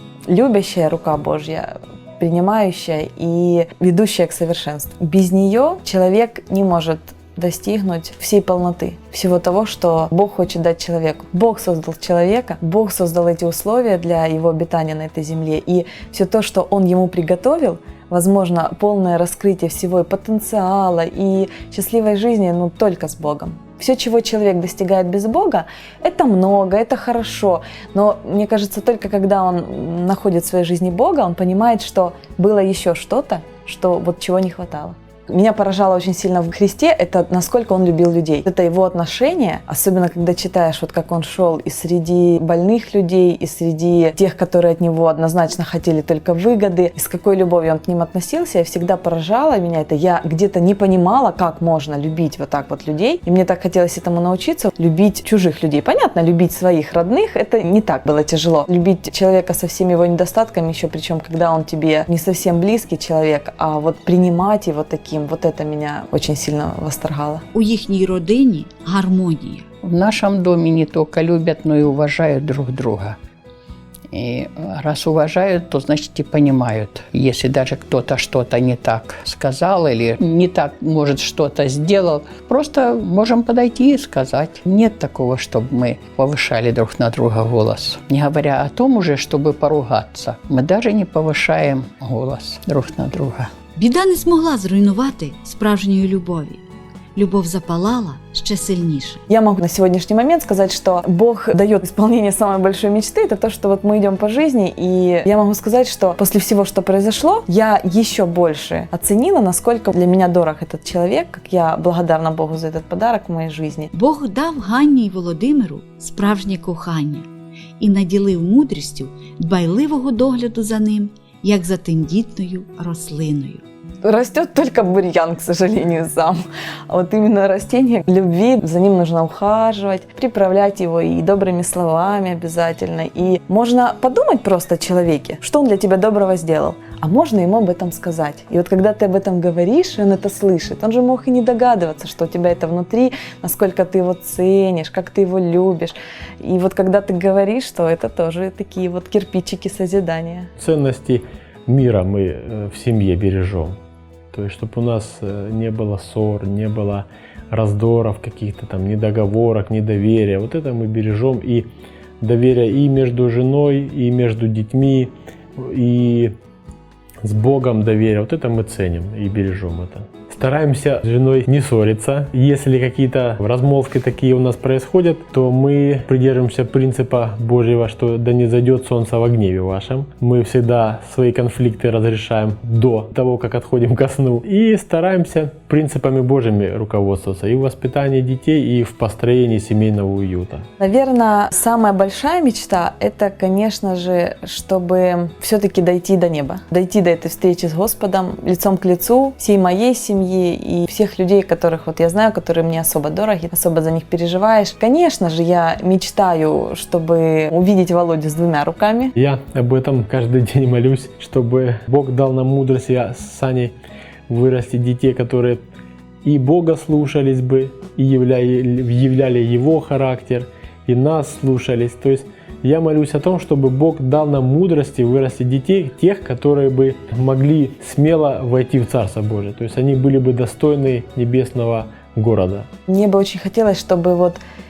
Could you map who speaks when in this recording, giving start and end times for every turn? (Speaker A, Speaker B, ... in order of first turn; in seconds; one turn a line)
Speaker A: 0.3-67.4
Speaker B: 67.5-69.7
Speaker C: 69.8-73.2
Speaker C: 74.1-93.5
Speaker B: 93.8-96.6
Speaker B: 97.1-99.2
Speaker A: 99.3-113.9
Speaker B: 113.9-117.3
Speaker B: 117.8-123.6
Speaker A: 124.0-150.5
Speaker D: 150.6-153.8
Speaker D: 154.3-161.7
Speaker D: 162.2-166.3
Speaker D: 167.2-190.7
Speaker A: 190.8-209.1
Speaker D: 209.2-213.7
Speaker D: 214.3-215.6
Speaker D: 216.2-232.7
Speaker A: 232.9-234.4